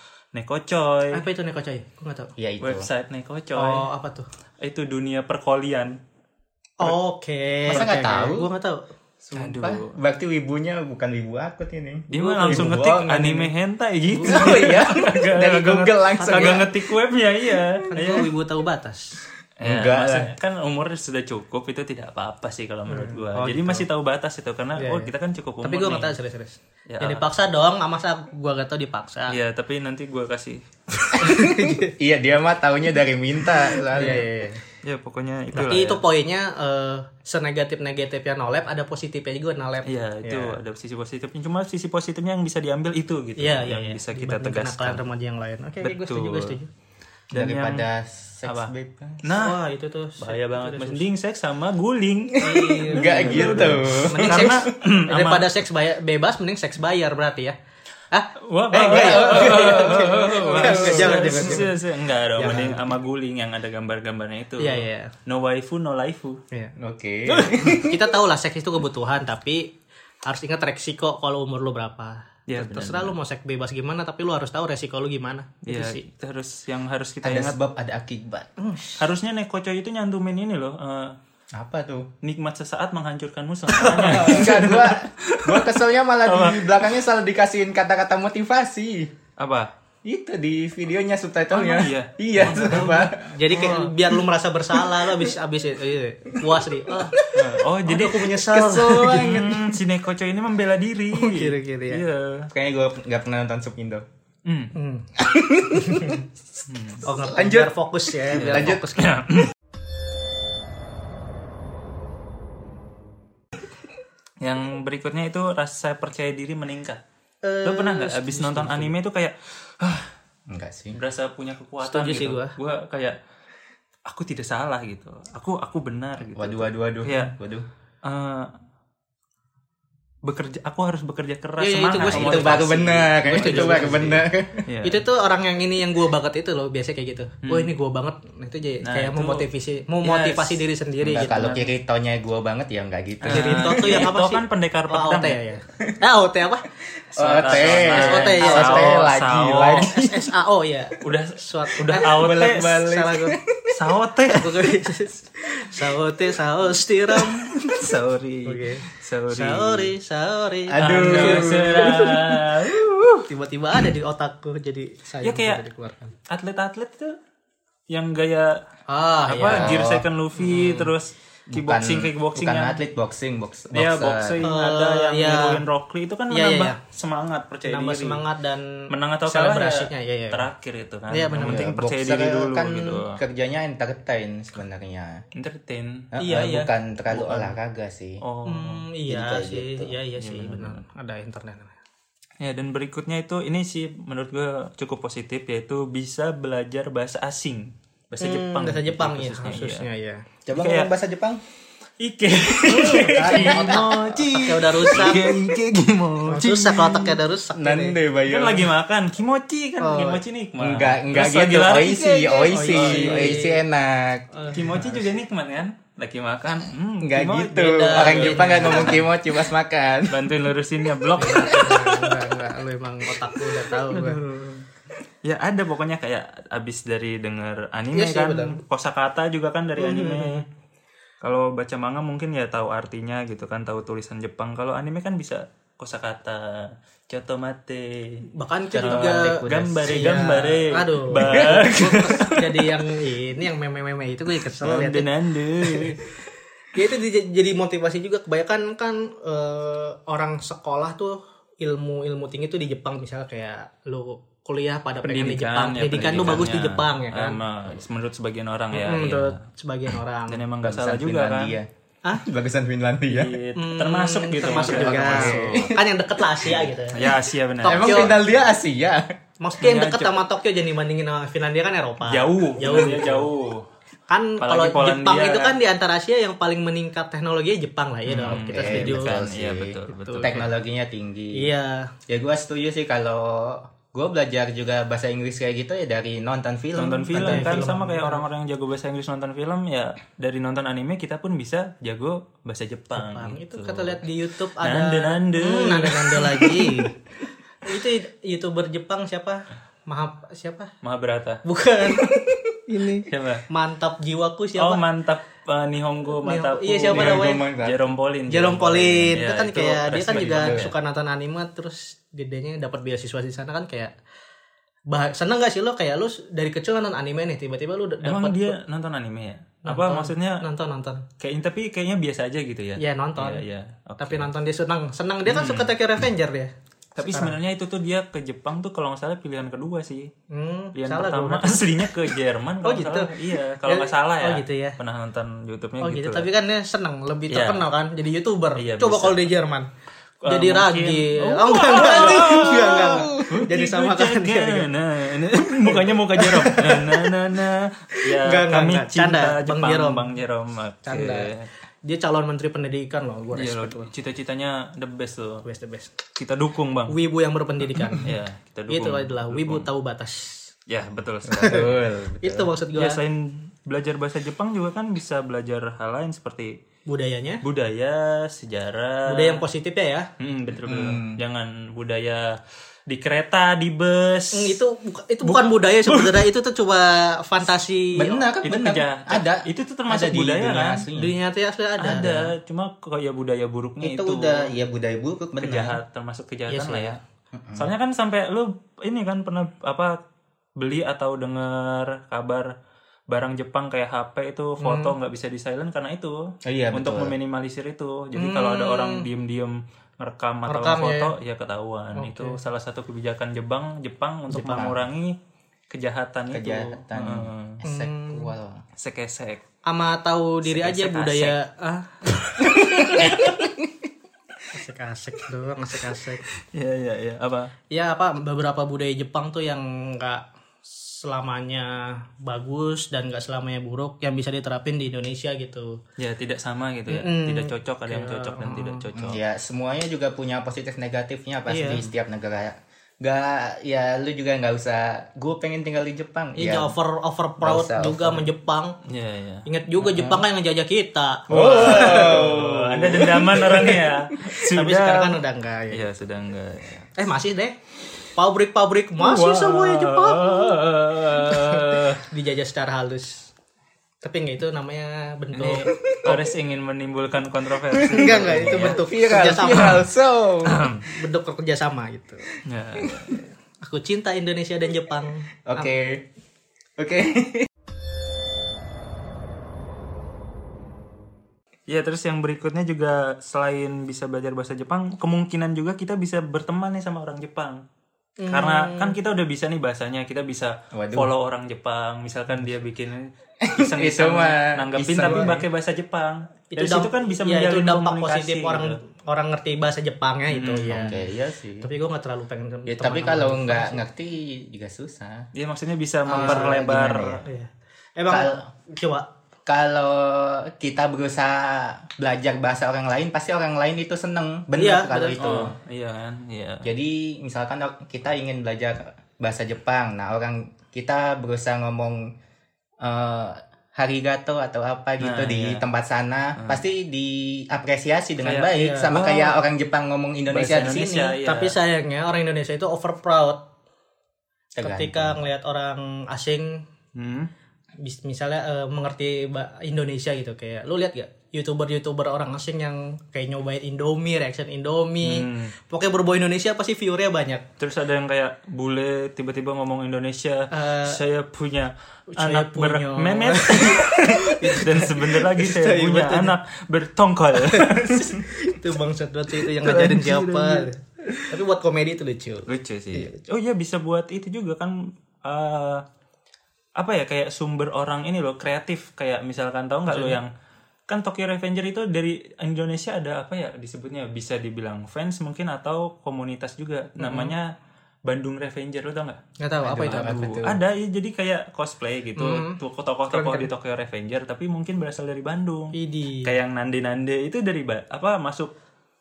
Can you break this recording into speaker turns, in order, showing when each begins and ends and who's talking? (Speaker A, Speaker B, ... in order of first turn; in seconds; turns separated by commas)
Speaker A: 0.3-1.2, Speaker B: 1.1-2.3, Speaker C: 2.4-2.9, Speaker A: 2.6-3.9, Speaker B: 3.6-4.3, Speaker A: 4.6-6.0, Speaker B: 6.8-8.8, Speaker C: 7.7-8.5, Speaker C: 9.2-13.5, Speaker A: 9.3-9.9, Speaker A: 12.1-18.3, Speaker B: 14.1-14.8, Speaker C: 14.2-16.8, Speaker B: 17.9-19.2, Speaker A: 19.6-26.1, Speaker C: 19.6-20.3, Speaker B: 22.9-23.9, Speaker B: 24.8-25.1, Speaker B: 25.6-29.4, Speaker A: 26.9-27.2, Speaker A: 29.3-30.6, Speaker B: 31.1-31.9, Speaker C: 31.2-34.6, Speaker B: 34.0-34.2, Speaker A: 34.8-36.0, Speaker B: 35.5-40.6, Speaker A: 39.9-45.0, Speaker B: 43.4-46.7, Speaker A: 45.8-46.6, Speaker A: 47.3-47.9, Speaker C: 47.3-49.3, Speaker A: 48.5-49.6, Speaker B: 49.3-51.0, Speaker A: 50.2-55.5, Speaker B: 52.4-57.6, Speaker C: 52.5-54.7, Speaker B: 58.1-61.8, Speaker A: 58.4-66.4, Speaker C: 58.7-61.7, Speaker B: 62.4-62.9, Speaker C: 62.4-62.8, Speaker B: 64.6-65.1, Speaker C: 66.8-68.1, Speaker B: 67.3-69.8, Speaker B: 70.3-76.0, Speaker A: 72.5-73.2, Speaker A: 75.7-77.6, Speaker C: 77.2-78.5, Speaker B: 78.6-79.0, Speaker A: 79.0-81.2, Speaker C: 81.5-82.1, Speaker A: 82.2-86.9, Speaker B: 83.8-84.4, Speaker C: 83.9-89.1, Speaker A: 89.4-89.7, Speaker C: 90.0-93.3, Speaker A: 91.5-93.9, Speaker B: 92.5-97.2, Speaker C: 97.0-97.5, Speaker A: 97.3-102.5, Speaker B: 97.9-99.4, Speaker C: 98.4-99.7, Speaker B: 101.1-102.0, Speaker C: 102.5-104.0, Speaker A: 104.5-104.7, Speaker B: 104.8-105.1, Speaker C: 105.2-106.2, Speaker B: 105.6-106.2, Speaker A: 106.7-107.1, Speaker B: 107.0-109.2, Speaker C: 107.3-107.7, Speaker A: 108.3-109.5, Speaker C: 108.3-108.8, Speaker A: 114.4-117.0, Speaker B: 117.4-118.9, Speaker A: 117.7-120.1, Speaker C: 120.5-121.0, Speaker A: 120.9-123.2, Speaker B: 121.8-122.5, Speaker A: 124.1-127.3, Speaker C: 126.3-127.7, Speaker A: 128.0-128.5, Speaker A: 130.2-135.0, Speaker B: 131.6-134.2, Speaker C: 131.9-134.7, Speaker B: 134.8-141.7, Speaker A: 137.4-137.7, Speaker A: 138.8-139.5, Speaker A: 140.0-140.6, Speaker C: 141.0-144.1, Speaker A: 143.2-145.4, Speaker B: 143.3-146.7, Speaker C: 147.2-150.2, Speaker A: 147.2-150.0, Speaker B: 147.5-149.1, Speaker B: 149.7-153.4, Speaker A: 151.0-152.9, Speaker C: 152.1-154.0, Speaker A: 153.7-154.7, Speaker B: 154.3-157.4, Speaker A: 157.2-159.9, Speaker C: 157.3-157.9, Speaker B: 158.4-162.0, Speaker C: 160.7-163.1, Speaker A: 160.8-163.2, Speaker B: 163.3-166.1, Speaker A: 165.2-165.6, Speaker A: 166.3-167.2, Speaker A: 167.9-168.6, Speaker B: 168.9-169.7, Speaker A: 169.3-172.8, Speaker C: 169.4-170.1, Speaker B: 170.4-170.9, Speaker C: 171.5-174.5, Speaker A: 173.7-178.2, Speaker B: 174.4-175.6, Speaker B: 176.3-176.8, Speaker B: 177.7-180.4, Speaker A: 178.9-183.2, Speaker B: 181.1-181.7, Speaker C: 181.4-185.2, Speaker A: 185.3-186.1, Speaker C: 186.1-188.2, Speaker B: 186.2-186.7, Speaker A: 187.1-187.6, Speaker A: 188.2-188.8, Speaker B: 188.5-191.8, Speaker C: 189.1-189.9, Speaker A: 190.2-190.8, Speaker A: 192.4-199.9, Speaker B: 198.2-200.2, Speaker C: 200.5-201.4, Speaker A: 200.5-200.9, Speaker A: 202.0-207.2, Speaker C: 202.7-204.0, Speaker B: 202.8-205.4, Speaker B: 206.3-208.0, Speaker C: 207.5-208.7, Speaker A: 208.3-213.4, Speaker B: 209.8-210.2, Speaker C: 210.6-214.8, Speaker B: 212.5-213.6, Speaker B: 214.3-215.1, Speaker A: 214.5-219.1, Speaker C: 217.0-220.3, Speaker B: 217.6-219.0, Speaker A: 220.1-222.1, Speaker B: 221.2-224.2, Speaker A: 223.9-224.2, Speaker A: 225.2-230.4, Speaker B: 227.9-228.6, Speaker B: 229.8-230.4, Speaker A: 231.2-238.2, Speaker B: 238.3-245.1, Speaker C: 238.7-240.3, Speaker A: 238.8-242.6, Speaker C: 241.2-241.7, Speaker A: 244.5-246.0, Speaker B: 245.6-246.0, Speaker B: 246.7-257.4, Speaker A: 255.1-259.4, Speaker B: 258.7-260.4, Speaker A: 260.3-261.6, Speaker C: 260.6-263.4, Speaker A: 263.1-265.7, Speaker B: 263.6-268.2, Speaker C: 264.4-265.8, Speaker A: 266.9-268.2, Speaker C: 267.6-269.1, Speaker B: 269.4-273.3, Speaker A: 269.6-270.2, Speaker A: 272.1-273.7, Speaker B: 274.1-279.2, Speaker A: 274.4-275.6, Speaker A: 278.1-280.5, Speaker C: 278.2-281.5, Speaker B: 279.9-280.5, Speaker B: 281.3-281.9, Speaker C: 282.1-287.7, Speaker A: 286.8-294.0, Speaker B: 287.2-288.2, Speaker B: 292.9-296.9, Speaker A: 294.6-296.8, Speaker B: 297.6-300.7, Speaker A: 300.8-301.4, Speaker B: 301.4-304.8, Speaker A: 303.1-303.5, Speaker A: 304.6-310.7, Speaker B: 306.2-307.4, Speaker C: 306.9-307.9, Speaker B: 308.3-313.9, Speaker C: 310.3-310.7, Speaker B: 314.9-318.6, Speaker A: 318.0-320.4, Speaker B: 319.7-321.1, Speaker A: 321.2-324.3, Speaker B: 322.8-323.4, Speaker B: 324.0-327.4, Speaker A: 325.3-325.7, Speaker A: 327.0-330.1, Speaker B: 330.3-331.9, Speaker A: 330.8-336.3, Speaker B: 332.6-334.8, Speaker B: 335.8-339.7, Speaker A: 337.3-337.7, Speaker A: 338.6-339.2, Speaker A: 340.2-351.5, Speaker B: 340.3-344.7, Speaker C: 341.9-343.4, Speaker B: 345.7-347.1, Speaker B: 347.9-350.1, Speaker B: 350.9-351.3, Speaker B: 351.8-353.9, Speaker A: 353.3-355.5, Speaker B: 355.4-355.9, Speaker A: 356.1-357.0, Speaker B: 356.9-358.1, Speaker A: 357.9-359.7, Speaker B: 358.7-360.5, Speaker A: 360.7-361.7, Speaker C: 361.3-362.5, Speaker B: 361.4-361.6, Speaker B: 362.2-363.0, Speaker A: 362.8-366.6, Speaker B: 366.9-367.4, Speaker A: 367.4-369.4, Speaker B: 369.1-370.1, Speaker A: 370.2-372.4, Speaker C: 370.7-371.2, Speaker A: 372.9-374.6, Speaker B: 374.4-378.2, Speaker A: 375.2-376.2, Speaker C: 377.9-381.1, Speaker A: 378.4-380.9, Speaker B: 380.9-382.1, Speaker A: 381.8-384.5, Speaker C: 382.0-382.2, Speaker C: 383.8-385.8, Speaker A: 385.4-387.0, Speaker B: 386.5-387.0, Speaker C: 387.3-387.7, Speaker A: 387.6-389.9, Speaker A: 390.6-392.5, Speaker A: 393.1-396.2, Speaker B: 394.6-394.9, Speaker C: 396.4-397.1, Speaker A: 396.7-405.2, Speaker B: 398.1-399.1, Speaker B: 400.5-401.1, Speaker B: 401.9-402.4, Speaker C: 404.3-404.8, Speaker A: 405.7-407.6, Speaker C: 406.3-408.6, Speaker B: 407.6-408.3, Speaker A: 408.8-409.4, Speaker B: 409.7-412.2, Speaker A: 410.4-411.4, Speaker A: 412.3-413.5, Speaker C: 412.5-413.5, Speaker B: 414.5-416.2, Speaker A: 416.5-417.5, Speaker B: 417.7-425.8, Speaker A: 426.0-429.2, Speaker B: 426.9-428.8, Speaker C: 428.9-436.7, Speaker B: 431.5-431.8, Speaker B: 436.4-438.8, Speaker C: 437.4-438.3, Speaker A: 438.9-439.5, Speaker B: 439.5-442.3, Speaker C: 439.8-440.2, Speaker C: 441.3-444.1, Speaker A: 441.3-446.9, Speaker B: 444.4-445.9, Speaker B: 447.0-447.6, Speaker B: 448.2-450.6, Speaker A: 449.0-452.0, Speaker B: 451.2-453.3, Speaker B: 454.0-456.2, Speaker A: 455.4-458.8, Speaker C: 455.8-456.2, Speaker B: 457.9-459.8, Speaker C: 457.9-460.7, Speaker A: 460.4-460.9, Speaker B: 460.9-462.4, Speaker A: 462.4-463.2, Speaker B: 463.6-465.7, Speaker C: 465.5-466.1, Speaker C: 466.8-467.5, Speaker A: 471.7-477.6, Speaker B: 478.2-479.0, Speaker A: 478.3-488.8, Speaker C: 480.7-481.1, Speaker C: 483.4-485.4, Speaker B: 485.0-485.4, Speaker B: 486.5-490.9, Speaker A: 490.3-491.0, Speaker C: 490.7-491.7, Speaker B: 491.6-493.8, Speaker C: 492.7-495.3, Speaker A: 495.3-497.2, Speaker C: 496.1-497.2, Speaker B: 496.1-496.6, Speaker B: 497.2-499.1, Speaker C: 498.1-498.5, Speaker C: 499.5-505.5, Speaker B: 504.6-505.2, Speaker A: 505.2-506.7, Speaker C: 506.6-512.1, Speaker C: 512.8-521.1, Speaker A: 515.0-515.6, Speaker A: 516.4-516.6, Speaker A: 518.2-519.0, Speaker B: 518.5-519.3, Speaker A: 520.3-521.5, Speaker B: 521.1-523.5, Speaker C: 524.5-525.2, Speaker B: 524.6-526.6, Speaker A: 527.0-527.3, Speaker B: 527.8-537.5, Speaker A: 535.0-535.5, Speaker A: 537.6-548.2, Speaker B: 540.5-541.0, Speaker B: 542.1-546.4, Speaker B: 547.5-553.1, Speaker A: 549.6-550.7, Speaker A: 552.5-555.8, Speaker A: 556.8-560.3, Speaker B: 559.9-560.2, Speaker A: 560.9-567.5, Speaker B: 567.0-567.3, Speaker A: 568.1-569.2, Speaker B: 569.4-570.4, Speaker C: 569.6-570.6, Speaker A: 569.9-578.5, Speaker B: 572.2-572.6, Speaker B: 573.1-573.5, Speaker B: 575.7-576.3